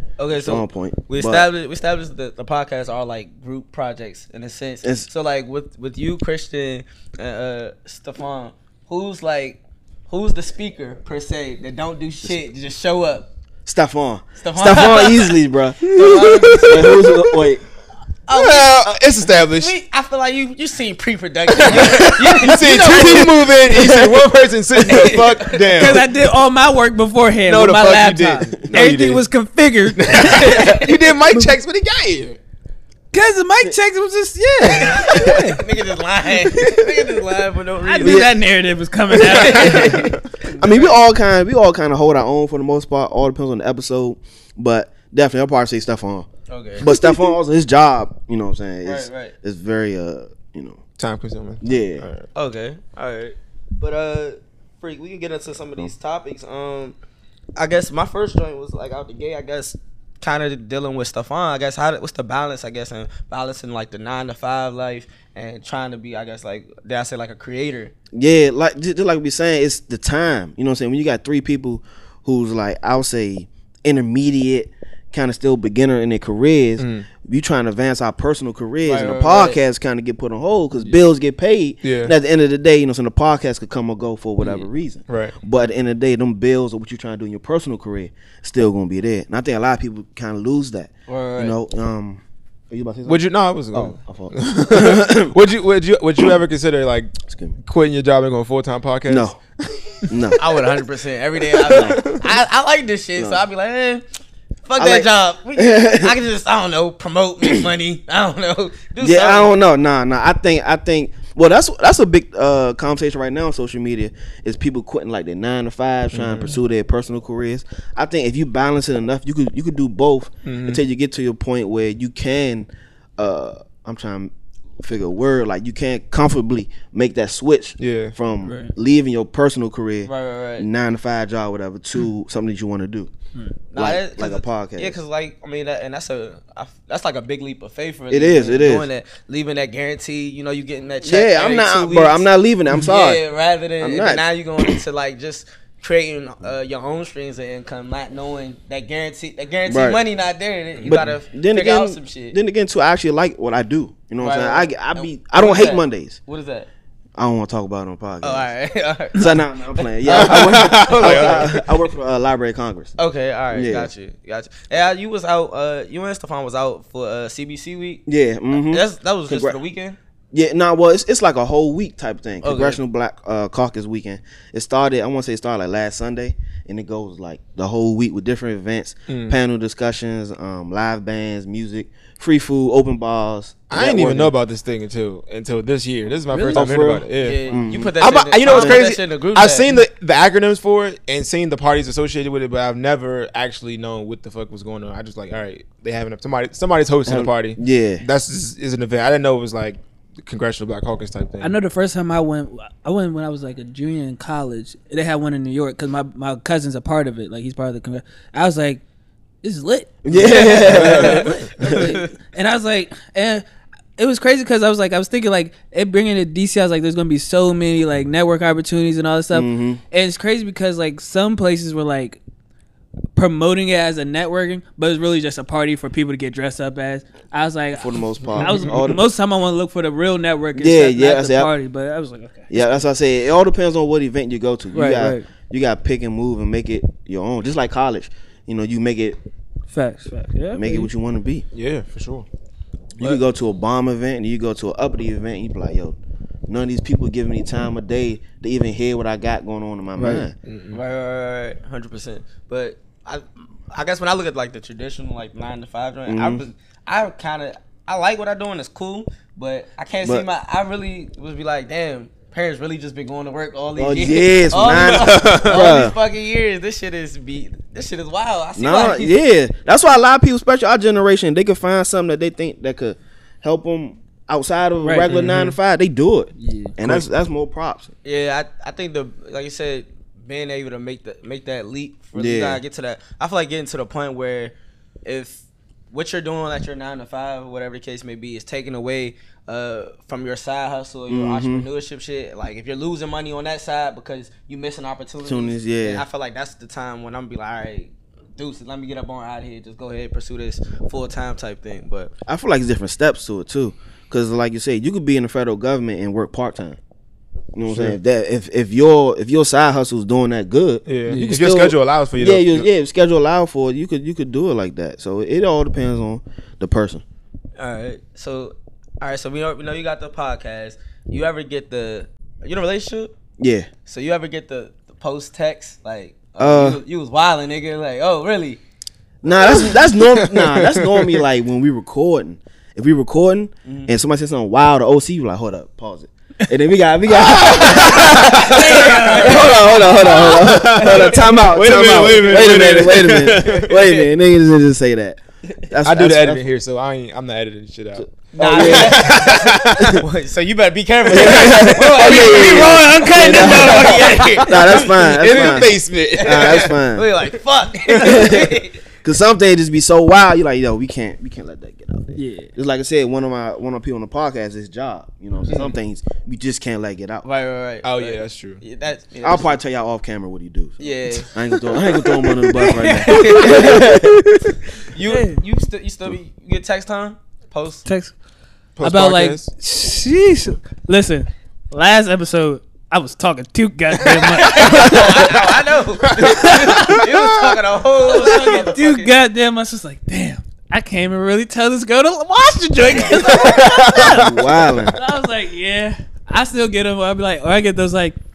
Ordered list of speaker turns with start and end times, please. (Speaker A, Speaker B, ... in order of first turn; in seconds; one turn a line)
Speaker A: 0.2-13.3
Speaker B: 0.3-1.5
Speaker B: 4.8-5.1
Speaker B: 13.7-17.6
Speaker A: 14.4-17.0
Speaker A: 18.3-23.5
Speaker C: 18.3-19.7
Speaker C: 21.5-26.1
Speaker B: 23.8-24.1
Speaker A: 24.9-26.0
Speaker D: 25.8-30.8
Speaker C: 27.5-29.2
Speaker C: 29.9-32.4
Speaker A: 30.2-31.0
Speaker D: 33.1-35.6
Speaker A: 34.7-38.3
Speaker C: 36.6-37.0
Speaker D: 37.8-40.2
Speaker B: 38.0-38.3
Speaker A: 39.2-41.0
Speaker B: 40.6-46.3
Speaker A: 46.5-47.0
Speaker B: 46.8-50.8
Speaker A: 48.8-49.3
Speaker C: 51.0-52.2
Speaker B: 51.6-52.0
Speaker A: 52.4-57.0
Speaker A: 57.6-67.9
Speaker B: 68.1-95.3
Speaker C: 76.8-77.1
Speaker A: 78.8-79.6
Speaker C: 81.8-82.1
Speaker C: 85.1-85.3
Speaker A: 91.1-91.6
Speaker C: 93.0-100.4
Speaker B: 97.3-97.5
Speaker B: 99.1-99.4
Speaker B: 100.1-100.5
Speaker A: 100.4-104.0
Speaker C: 101.5-102.2
Speaker B: 101.6-102.1
Speaker B: 103.2-103.4
Speaker A: 104.7-109.5
Speaker B: 104.8-106.1
Speaker B: 109.0-133.1
Speaker C: 116.1-116.6
Speaker C: 120.5-120.8
Speaker C: 127.8-128.1
Speaker D: 128.4-128.7
Speaker A: 130.1-130.7
Speaker A: 133.7-152.4
Speaker B: 133.8-135.0
Speaker B: 138.1-138.9
Speaker B: 141.0-143.2
Speaker B: 143.8-144.8
Speaker B: 149.7-150.0
Speaker C: 150.8-151.2
Speaker B: 150.8-156.2
Speaker A: 154.2-156.7
Speaker B: 157.2-158.5
Speaker A: 158.2-161.6
Speaker B: 159.1-162.9
Speaker C: 160.1-161.7
Speaker A: 163.0-170.0
Speaker B: 163.5-163.9
Speaker B: 168.1-169.6
Speaker B: 170.3-184.3
Speaker A: 172.4-172.8
Speaker C: 179.1-179.4
Speaker C: 183.7-201.6
Speaker D: 186.3-186.8
Speaker B: 186.5-187.9
Speaker A: 187.2-189.7
Speaker B: 188.4-188.8
Speaker B: 197.1-198.0
Speaker D: 201.4-208.8
Speaker D: 209.4-213.4
Speaker B: 210.1-211.9
Speaker A: 210.1-212.1
Speaker C: 210.7-211.5
Speaker D: 214.0-222.2
Speaker B: 219.3-219.8
Speaker D: 223.2-232.7
Speaker B: 227.8-229.0
Speaker C: 228.3-228.7
Speaker B: 230.6-231.5
Speaker B: 232.5-239.2
Speaker D: 234.7-235.3
Speaker D: 239.7-240.9
Speaker B: 240.5-241.4
Speaker C: 241.5-242.3
Speaker B: 243.0-246.0
Speaker B: 246.5-250.3
Speaker D: 250.0-250.3
Speaker C: 250.4-250.8
Speaker A: 250.7-269.2
Speaker B: 256.1-256.4
Speaker B: 263.8-265.9
Speaker C: 264.8-265.7
Speaker B: 268.6-277.9
Speaker D: 274.8-275.3
Speaker C: 275.1-275.6
Speaker D: 276.4-276.7
Speaker A: 278.0-284.5
Speaker B: 282.1-282.6
Speaker A: 285.1-302.1
Speaker B: 291.1-291.6
Speaker B: 295.2-296.1
Speaker B: 302.3-306.8
Speaker B: 307.5-317.0
Speaker C: 307.7-308.0
Speaker C: 310.9-312.7
Speaker A: 317.6-323.1
Speaker B: 323.4-323.7
Speaker A: 323.9-328.6
Speaker B: 326.4-326.8
Speaker B: 329.2-346.4
Speaker C: 329.5-331.2
Speaker A: 333.6-333.9
Speaker C: 337.1-338.9
Speaker A: 337.5-344.1
Speaker D: 337.9-339.6
Speaker C: 340.2-343.7
Speaker C: 345.8-350.0
Speaker B: 348.0-350.0
Speaker A: 348.3-358.8
Speaker B: 351.1-357.1
Speaker C: 351.2-351.8
Speaker D: 351.9-354.6
Speaker C: 354.8-356.8
Speaker B: 357.9-367.2
Speaker D: 362.1-362.5
Speaker A: 367.2-369.6
Speaker C: 367.8-368.6
Speaker B: 369.2-374.2
Speaker A: 370.8-371.3
Speaker A: 372.6-374.1
Speaker D: 373.5-373.8
Speaker A: 374.9-377.9
Speaker D: 375.1-375.4
Speaker D: 377.9-378.1
Speaker C: 378.8-379.5
Speaker D: 378.8-385.4
Speaker A: 384.2-389.1
Speaker D: 386.2-387.1
Speaker C: 386.2-387.5
Speaker D: 388.0-398.2
Speaker A: 392.9-393.4
Speaker B: 393.1-395.0
Speaker C: 393.9-394.3